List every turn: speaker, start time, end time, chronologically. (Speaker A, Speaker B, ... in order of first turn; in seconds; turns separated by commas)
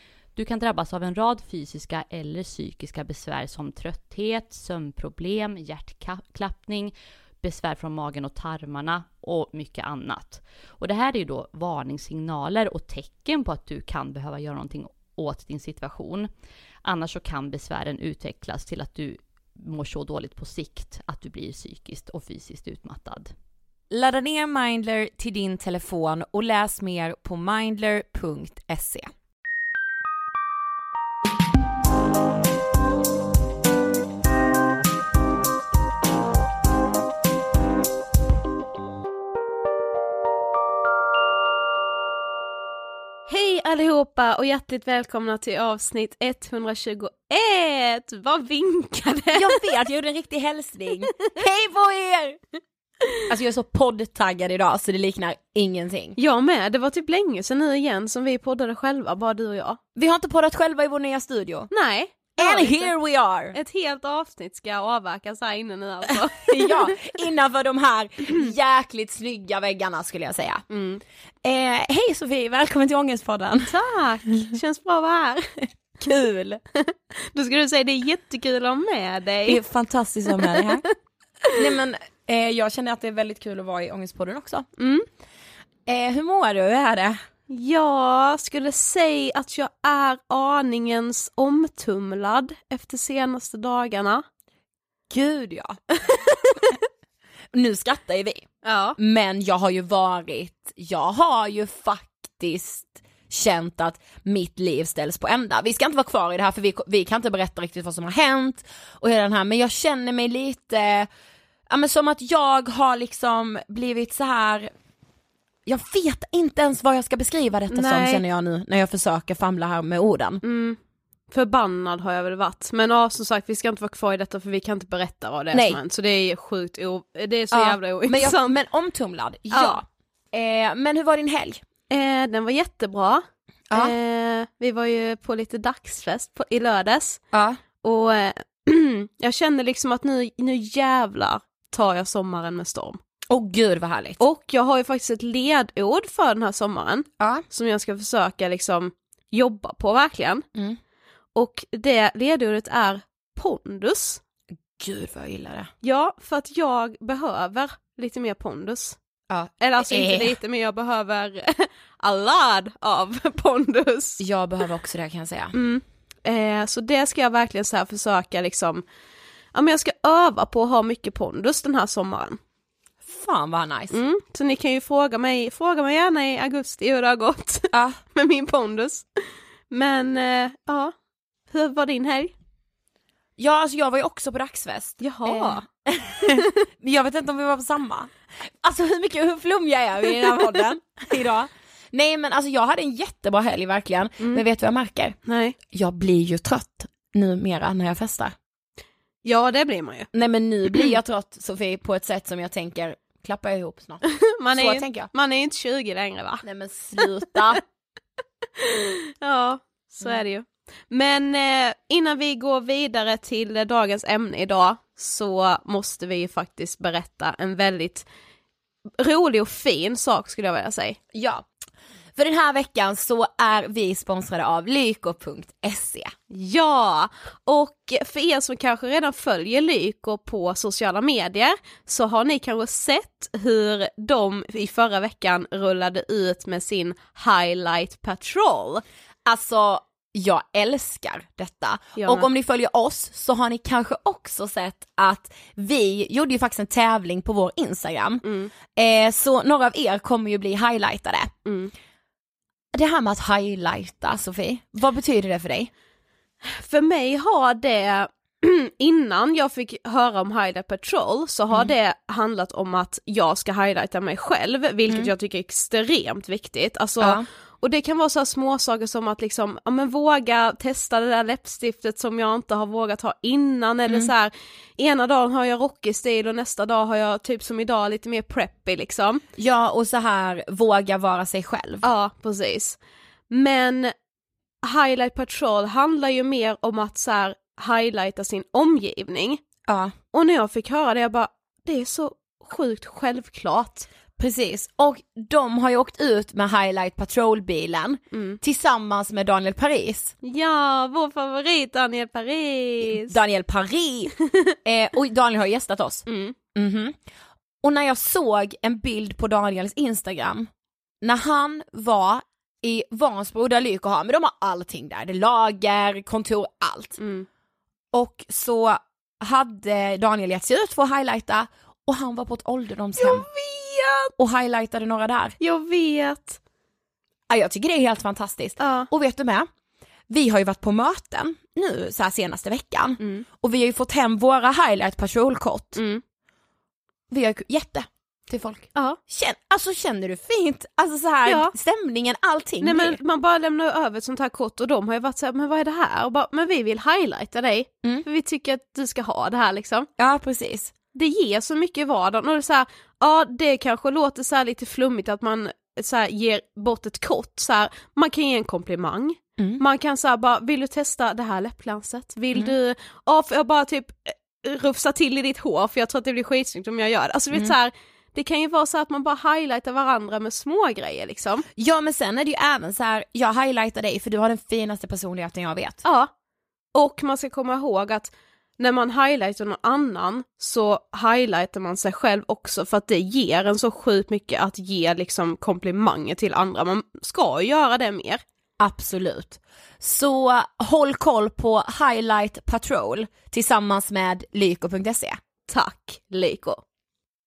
Speaker A: 0.4-16.3, Speaker A: 16.9-23.3, Speaker B: 23.9-29.1, Speaker C: 43.3-49.6, Speaker B: 49.3-52.4, Speaker B: 53.3-56.2, Speaker C: 56.2-59.8, Speaker B: 60.0-61.7, Speaker C: 61.7-62.9, Speaker B: 62.4-63.6, Speaker C: 63.5-66.9, Speaker B: 66.3-70.7, Speaker C: 70.7-71.0, Speaker B: 71.4-73.8, Speaker C: 73.6-75.6, Speaker B: 76.0-76.6, Speaker C: 76.8-79.6, Speaker B: 79.5-80.9, Speaker B: 81.5-84.7, Speaker C: 84.8-85.1, Speaker B: 85.9-87.2, Speaker C: 87.5-94.2, Speaker B: 95.1-96.2, Speaker C: 96.1-96.7, Speaker B: 97.5-111.1, Speaker C: 98.6-99.0, Speaker B: 111.7-114.7, Speaker B: 115.7-120.4, Speaker C: 117.7-118.2, Speaker C: 120.4-120.8, Speaker C: 121.3-128.5, Speaker B: 125.5-125.8, Speaker B: 127.5-131.6, Speaker C: 129.5-129.8, Speaker C: 131.9-137.2, Speaker B: 133.7-133.9, Speaker B: 137.3-137.6, Speaker C: 137.8-143.0, Speaker B: 143.3-144.2, Speaker C: 144.2-150.4, Speaker B: 147.2-147.5, Speaker C: 151.3-154.2, Speaker B: 154.8-155.7, Speaker C: 155.8-159.0, Speaker B: 159.3-160.4, Speaker C: 159.6-164.2, Speaker B: 164.2-165.6, Speaker C: 165.5-168.8, Speaker C: 169.5-172.4, Speaker B: 173.0-174.0, Speaker C: 173.9-180.9, Speaker B: 177.7-178.0, Speaker C: 181.5-182.3, Speaker B: 183.4-195.2, Speaker C: 185.0-185.7, Speaker C: 195.2-195.6, Speaker B: 195.7-198.3, Speaker C: 199.2-200.1, Speaker B: 200.1-204.0, Speaker C: 204.1-206.4, Speaker B: 204.5-205.1, Speaker B: 206.4-207.6, Speaker C: 208.6-218.1, Speaker C: 219.0-221.0, Speaker B: 221.1-221.4, Speaker B: 222.2-226.1, Speaker C: 226.3-238.8, Speaker B: 239.3-251.3, Speaker C: 242.0-242.3, Speaker C: 248.2-248.5, Speaker C: 251.4-251.7, Speaker B: 252.7-255.7, Speaker C: 256.4-279.2, Speaker B: 267.0-267.3, Speaker B: 279.4-281.8, Speaker C: 281.8-282.8, Speaker C: 283.3-283.9, Speaker C: 284.6-289.4, Speaker B: 289.7-289.9, Speaker C: 290.1-293.9, Speaker B: 294.2-300.1, Speaker C: 298.1-298.4, Speaker C: 300.2-303.2, Speaker B: 302.8-304.1, Speaker B: 304.6-307.0, Speaker C: 306.1-306.4, Speaker B: 307.6-310.5, Speaker B: 311.0-317.0, Speaker C: 317.0-317.3, Speaker B: 317.9-323.3, Speaker C: 323.0-324.1, Speaker B: 324.2-325.4, Speaker C: 325.4-326.4, Speaker B: 327.3-329.5, Speaker C: 328.6-328.9, Speaker B: 330.1-335.8, Speaker C: 333.0-333.2, Speaker C: 335.8-336.0, Speaker B: 337.1-343.0, Speaker C: 341.3-341.5, Speaker C: 342.6-349.9, Speaker B: 350.0-350.7, Speaker C: 350.9-371.4, Speaker B: 371.6-375.8, Speaker C: 375.8-376.1, Speaker C: 376.7-388.2, Speaker B: 388.6-395.2, Speaker C: 395.5-396.6